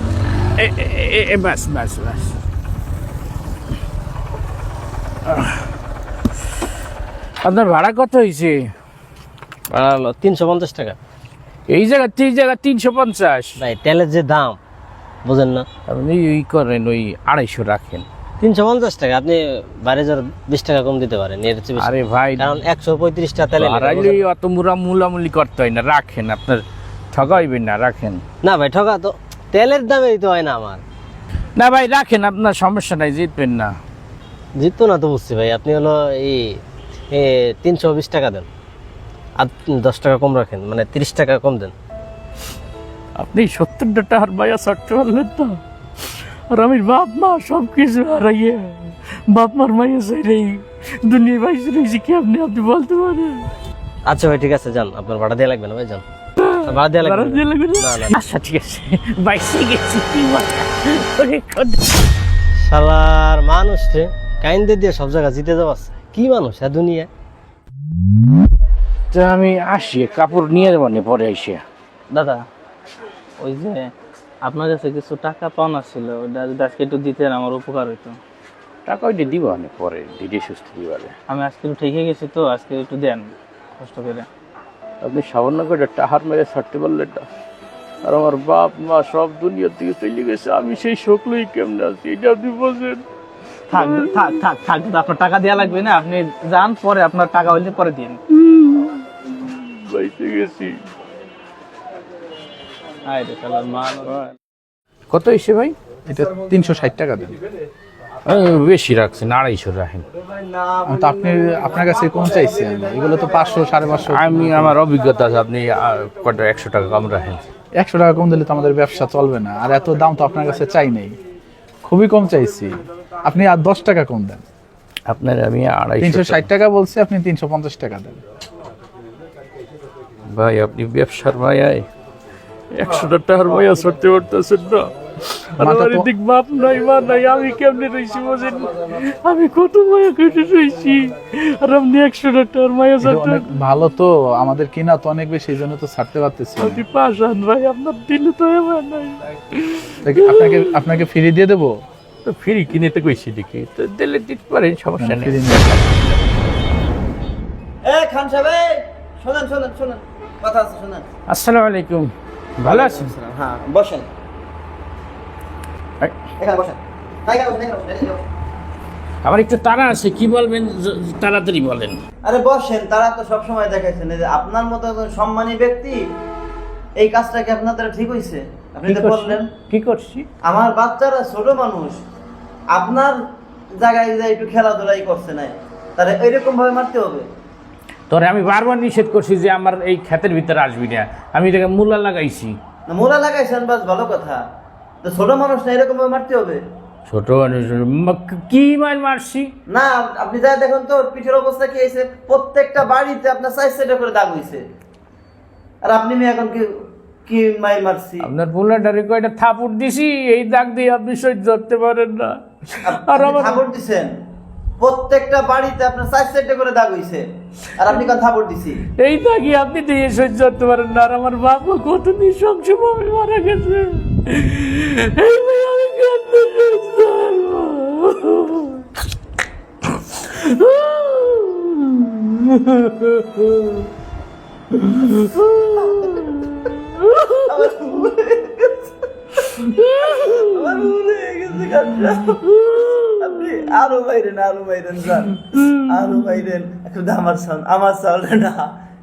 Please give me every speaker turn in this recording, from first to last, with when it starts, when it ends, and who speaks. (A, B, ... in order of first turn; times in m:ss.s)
0:00.6-0:02.3 A
0:07.4-0:08.7 A
0:09.7-0:11.0 B
0:11.7-0:13.6 A
0:13.6-0:14.6 B
0:15.2-0:15.7 B
0:15.9-0:18.1 A
0:18.4-0:24.2 B
0:21.8-0:22.5 A
0:23.6-0:28.2 A
0:28.4-0:30.8 B
0:31.6-0:33.7 A
0:34.6-0:38.5 B
0:39.4-0:41.8 B
0:43.2-0:45.6 A
0:46.5-0:53.5 A
0:54.1-0:56.0 B
0:56.4-1:01.8 A
0:56.7-0:58.2 B
1:02.7-1:07.1 B
1:09.1-1:11.6 A
1:12.1-1:12.4 C
1:13.4-1:13.9 C
1:14.4-1:18.2 C
1:18.9-1:21.1 A
1:21.3-1:24.3 C
1:25.0-1:27.3 A
1:28.0-1:33.0 A
1:33.7-1:34.4 A
1:33.7-1:38.2 C
1:38.5-1:38.9 A
1:39.5-1:40.8 A
1:43.1-1:44.3 C
1:45.1-1:45.8 A
1:46.1-1:47.4 D
1:48.3-1:50.0 A
1:50.4-1:51.1 E
1:50.9-1:54.8 D
1:52.2-1:52.5 E
1:54.1-1:57.4 A
1:57.8-2:01.2 D
2:01.9-2:04.4 D
2:05.1-2:06.5 A
2:06.0-2:08.2 D
2:10.3-2:11.9 A
2:12.7-2:23.5 A
2:15.6-2:16.1 D
2:23.0-2:26.8 D
2:26.6-2:30.7 A
2:30.0-2:31.8 D
2:32.2-2:35.9 A
2:35.0-2:35.7 D
2:37.8-2:41.0 E
2:41.3-2:43.1 A
2:42.6-2:44.1 E
2:46.4-2:48.2 E
2:49.2-2:52.0 A
2:52.2-2:56.0 E
2:57.0-2:59.5 E
2:58.9-3:00.3 A
3:00.4-3:02.0 E
3:02.7-3:03.2 E
3:03.7-3:07.3 E
3:08.1-3:12.5 A
3:12.9-3:14.4 E
3:15.0-3:16.6 E
3:17.1-3:19.5 A
3:19.7-3:24.6 E
3:25.8-3:26.7 E
3:27.3-3:28.3 E
3:28.2-3:33.6 A
3:32.8-3:34.1 E
3:34.8-3:37.2 E
3:37.8-3:38.8 E
3:39.0-3:48.7 A
3:50.1-3:53.7 A
3:54.8-3:55.8 A
3:55.8-3:56.6 E
3:57.4-3:59.4 E
3:59.6-4:00.5 A
3:59.9-4:08.7 E
4:02.5-4:03.2 A